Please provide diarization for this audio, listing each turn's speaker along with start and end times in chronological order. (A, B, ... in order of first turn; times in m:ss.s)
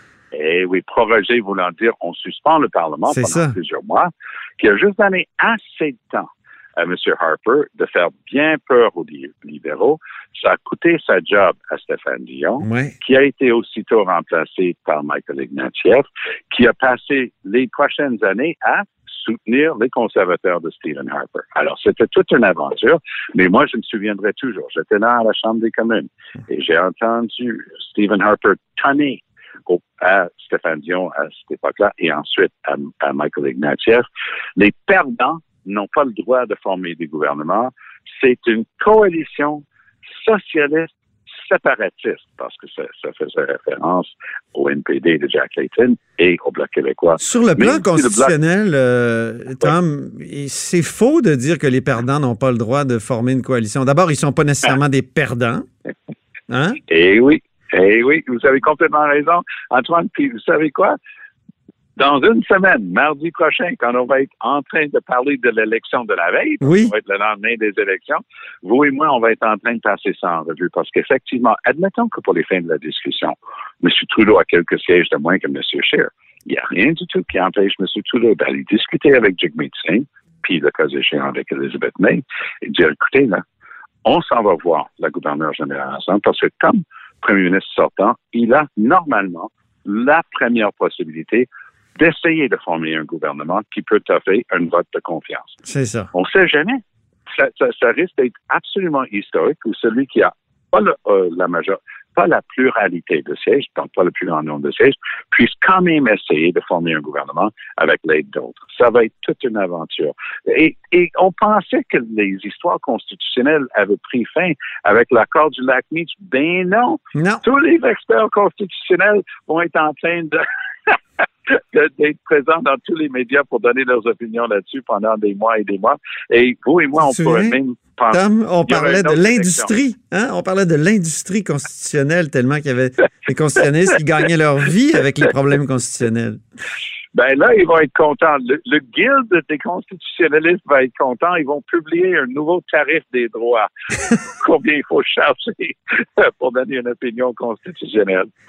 0:00.3-0:34.0 A
0:03.1-0:03.5 B
0:12.6-0:12.9 B
0:34.6-0:39.6 A
0:40.2-0:48.3 A
0:47.2-0:55.6 B
0:56.5-0:56.8 B
0:56.9-1:01.0 A
1:02.0-1:23.4 A
1:06.6-1:06.9 B
1:24.0-1:35.6 A
1:35.6-1:36.1 B
1:36.1-1:36.8 A
1:37.3-2:09.7 A
1:57.2-1:57.4 B
2:07.0-2:07.6 B
2:08.1-2:16.4 B
2:17.1-2:23.7 A
2:24.4-2:28.3 A